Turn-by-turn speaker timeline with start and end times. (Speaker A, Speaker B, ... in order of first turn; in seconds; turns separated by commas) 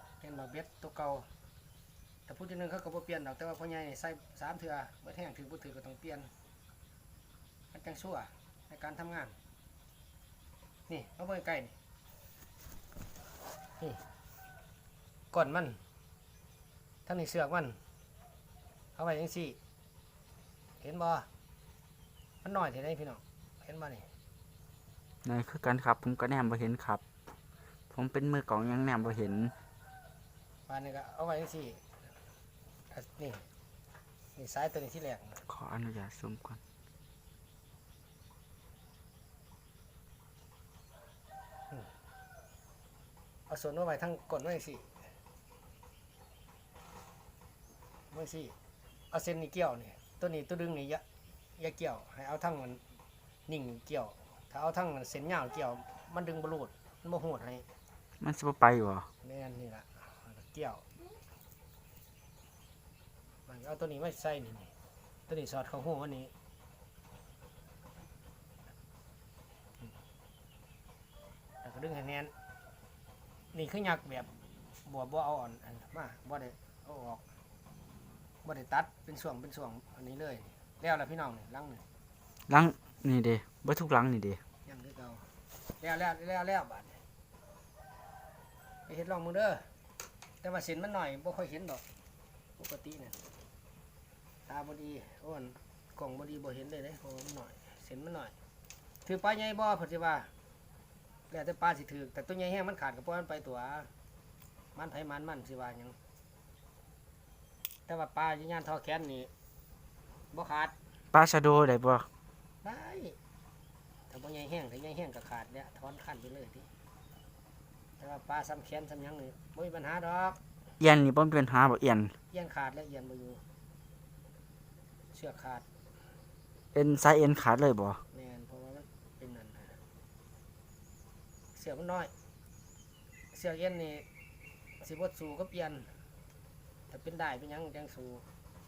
Speaker A: 0.2-1.3, Speaker A: 2.3-6.3, Speaker A: 7.7-9.4, Speaker A: 10.9-11.7, Speaker A: 15.3-15.8, Speaker A: 17.1-17.8, Speaker A: 19.0-19.6, Speaker A: 20.8-21.3, Speaker A: 22.4-24.1, Speaker B: 25.2-27.0, Speaker B: 27.9-29.5, Speaker A: 30.7-31.8, Speaker A: 32.9-33.5, Speaker A: 34.4-35.4, Speaker B: 35.5-36.6, Speaker A: 43.5-44.9, Speaker A: 48.1-48.5, Speaker A: 49.1-51.0, Speaker A: 51.6-52.8, Speaker A: 53.5-57.7, Speaker B: 58.2-59.1, Speaker A: 59.2-60.8, Speaker A: 63.5-64.7, Speaker A: 65.3-66.3, Speaker A: 71.6-72.3, Speaker A: 73.5-74.3, Speaker A: 74.9-77.2, Speaker A: 78.4-81.8, Speaker B: 82.5-84.4, Speaker A: 84.7-85.3, Speaker A: 85.8-87.0, Speaker A: 88.9-89.7, Speaker A: 90.4-91.8, Speaker A: 92.6-93.2, Speaker A: 94.5-98.3, Speaker A: 99.0-100.3, Speaker A: 101.3-103.9, Speaker A: 104.8-106.0, Speaker A: 107.9-109.3, Speaker A: 110.3-110.7, Speaker B: 111.1-112.1, Speaker A: 112.6-113.2, Speaker A: 114.1-116.7, Speaker A: 118.0-120.4, Speaker B: 120.8-122.1, Speaker A: 122.3-123.4, Speaker A: 125.1-125.7, Speaker B: 126.7-128.0, Speaker A: 128.1-129.8, Speaker A: 131.6-132.1, Speaker A: 133.3-134.1, Speaker A: 134.8-135.9, Speaker A: 136.9-138.2